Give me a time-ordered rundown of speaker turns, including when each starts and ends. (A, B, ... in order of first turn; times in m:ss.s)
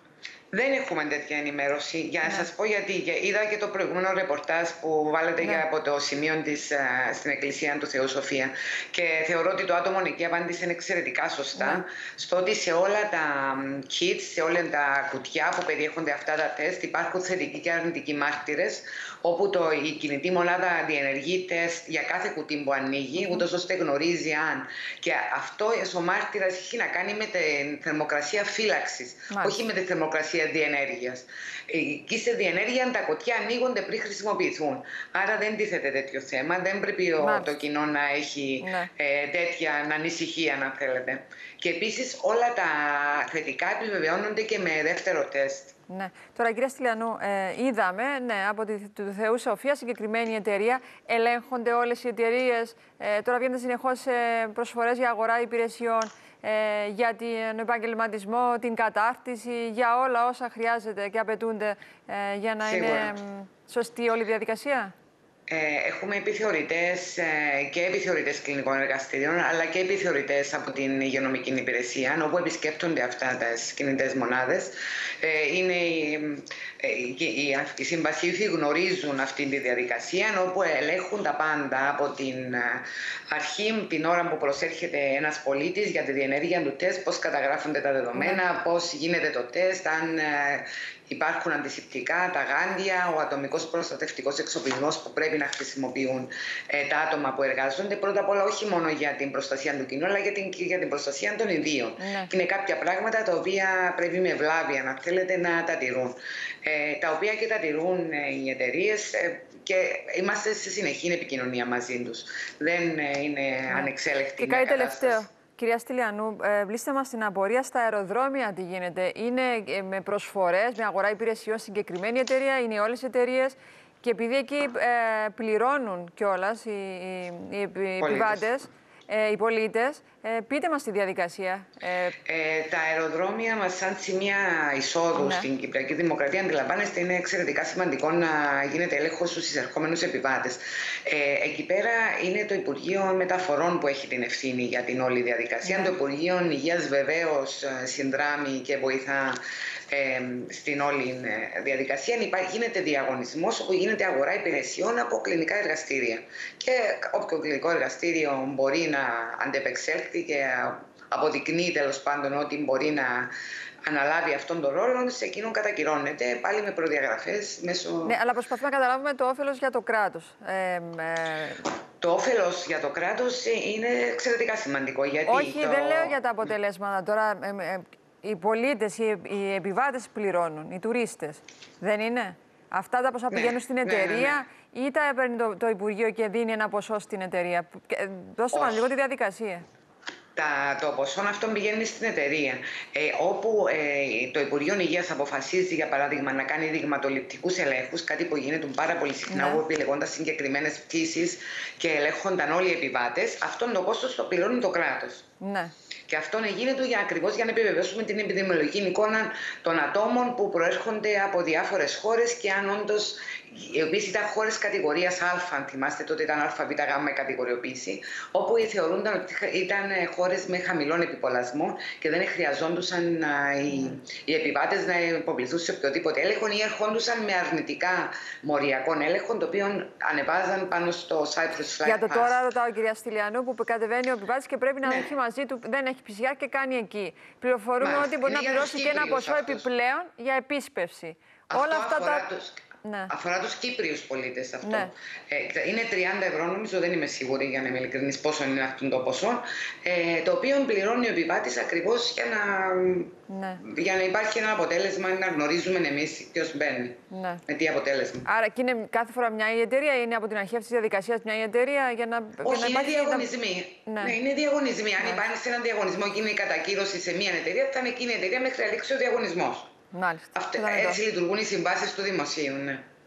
0:00.5-0:45.8 A
0:11.6-0:11.8 B
0:23.2-0:23.4 B
0:29.3-0:29.7 B
0:37.2-0:37.6 B
0:38.6-0:38.9 B
0:45.9-1:04.9 B
1:02.6-1:03.1 A
1:05.5-1:55.2 A
1:28.2-1:28.4 B
1:42.0-1:42.3 B
1:53.7-2:12.2 B
2:08.0-2:08.5 A
2:12.3-2:43.3 A
2:15.2-2:15.5 B
2:25.6-2:25.9 B
2:43.8-2:48.2 A
2:48.0-2:51.7 B
2:52.0-2:56.2 A
2:55.3-3:09.6 B
3:03.3-3:04.4 A
3:08.5-3:08.9 A
3:10.4-3:25.3 A
3:19.3-3:19.6 B
3:25.4-3:25.7 B
3:26.1-3:52.4 A
3:43.7-3:44.0 B
3:51.8-4:02.2 B
3:54.8-3:55.1 A
3:57.8-3:59.7 A
4:01.5-4:18.3 A
4:02.8-4:03.1 B
4:04.6-4:04.9 B
4:13.3-4:13.6 B
4:17.1-4:17.4 B
4:18.2-4:23.3 B
4:22.4-4:29.7 A
4:23.9-4:24.2 B
4:25.0-4:25.3 B
4:29.9-4:31.0 B
4:30.4-4:32.8 A